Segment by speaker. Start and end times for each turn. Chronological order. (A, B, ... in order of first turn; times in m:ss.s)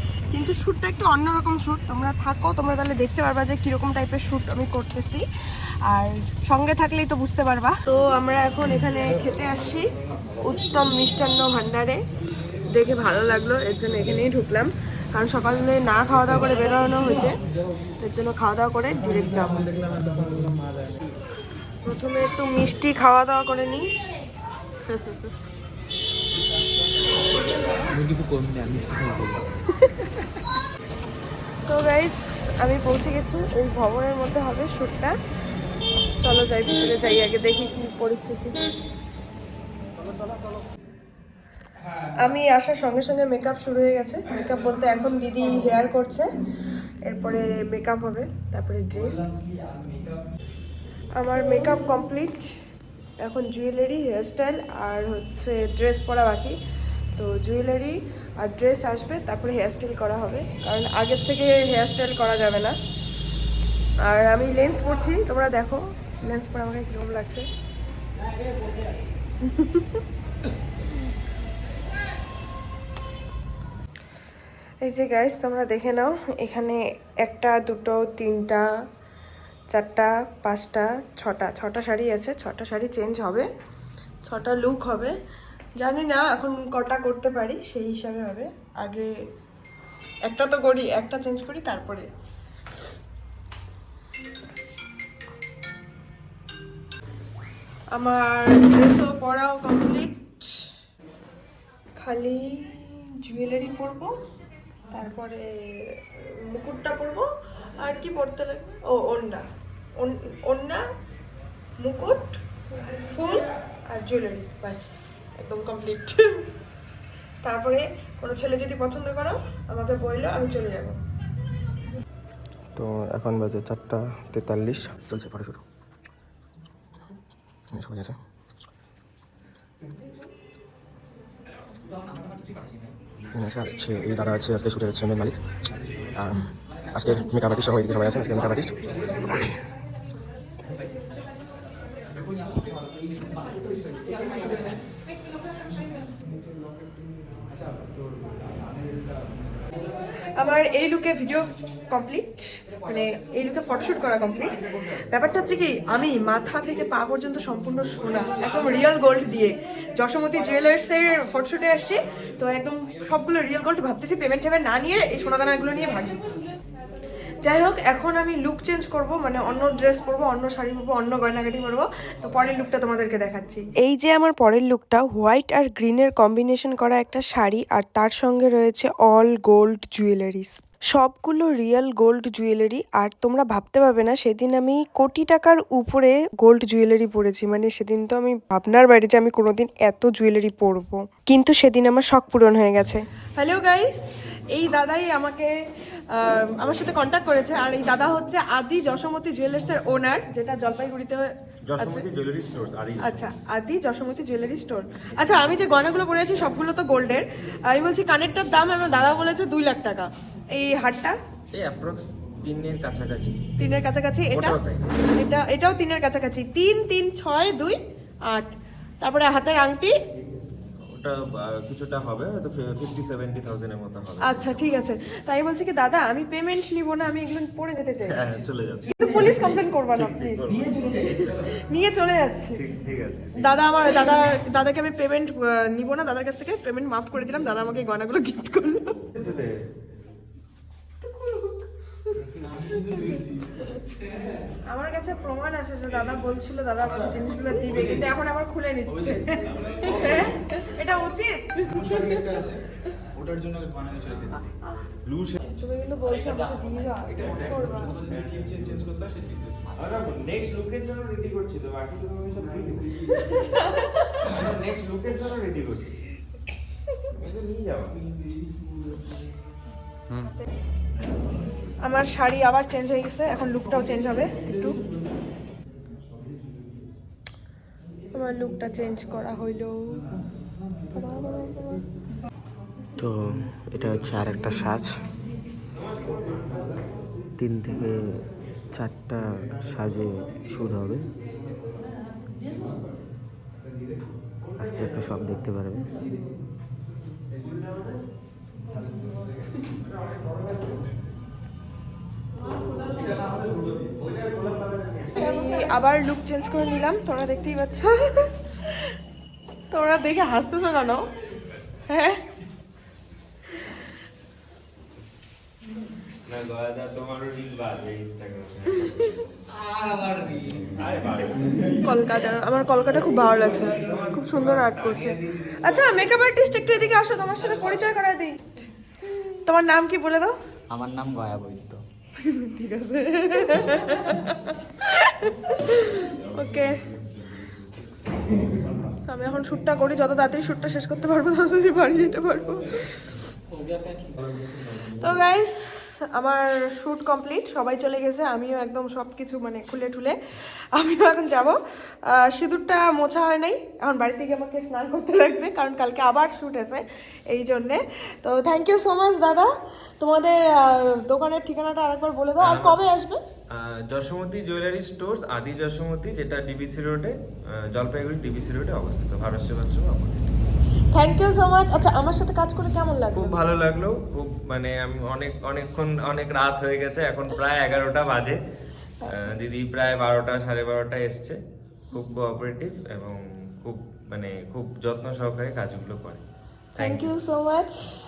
0:00.3-0:05.2 A
0:05.9-0:09.8 A
0:10.4-0:12.0 A
0:12.7-0:17.4 A
0:18.0-0:20.1 A
0:21.8-0:23.9 A
0:24.9-0:25.3 A
0:28.0-0:29.4 B
0:31.7-0:35.2 A
0:36.2-0:38.6 A
0:42.2-0:46.3 A
0:47.0-0:49.4 A
0:51.2-0:52.5 A
0:53.2-0:56.6 A
0:57.2-1:02.8 A
1:04.0-1:07.5 A
1:09.6-1:09.8 A
1:14.8-1:18.7 A
1:19.7-1:23.5 A
1:24.2-1:25.1 A
1:25.8-1:29.1 A
1:30.3-1:32.1 A
1:38.0-1:40.5 A
1:42.0-1:44.1 A
1:44.9-1:47.2 A
1:47.8-1:49.4 A
1:50.0-1:50.8 A
1:51.8-1:52.4 A
1:53.1-1:56.5 A
1:57.4-2:01.0 A
2:02.8-2:05.6 C
2:07.7-2:08.2 C
2:13.3-2:15.4 C
2:16.2-2:19.6 C
2:30.4-2:46.2 A
2:47.4-3:15.5 A
3:16.1-3:22.0 A
3:21.7-3:23.3 D
3:23.0-3:31.2 A
3:31.5-3:33.4 D
3:33.6-3:37.8 A
3:34.3-3:34.9 D
3:39.0-3:39.9 A
3:40.9-3:44.6 D
3:44.2-3:48.2 A
3:48.1-3:51.1 D
3:49.0-3:52.6 A
3:52.6-3:53.6 D
3:53.4-3:59.0 A
3:59.1-3:59.6 D
4:02.3-4:03.3 E
4:02.7-4:03.2 A
4:04.7-4:12.2 A
4:07.6-4:08.0 E
4:09.7-4:10.2 E
4:11.6-4:12.6 E
4:13.1-4:14.4 E
4:15.1-4:15.4 D
4:15.5-4:18.0 A
4:17.1-4:19.8 E
4:18.4-4:18.6 D
4:19.8-4:23.3 D
4:23.2-4:24.2 A
4:24.2-4:26.0 D
4:27.1-4:28.0 D
4:31.8-4:34.8 A
4:38.2-4:40.0 A
4:41.0-4:41.8 A
4:43.0-4:44.9 C
4:47.4-4:48.2 C
4:48.8-4:51.1 C
4:54.6-4:55.9 C
5:05.2-5:08.3 A
5:09.7-5:11.0 A
5:11.9-5:12.2 A
5:16.3-5:19.4 D
5:20.0-5:21.5 D
5:21.8-5:28.6 A
5:23.8-5:26.0 D
5:29.4-5:30.3 A
5:30.7-5:31.8 B
5:32.2-5:36.8 A
5:39.0-5:42.8 A
5:43.6-5:44.1 B
5:45.0-5:50.2 A
5:50.7-5:51.6 A
5:52.1-6:03.2 A
6:02.4-6:02.8 D
6:03.5-6:07.2 D
6:07.7-6:10.4 D
6:10.9-6:13.4 A
6:13.1-6:18.4 D
6:19.1-6:21.4 D
6:21.9-6:26.2 D
6:26.8-6:27.1 D
6:26.8-6:27.8 A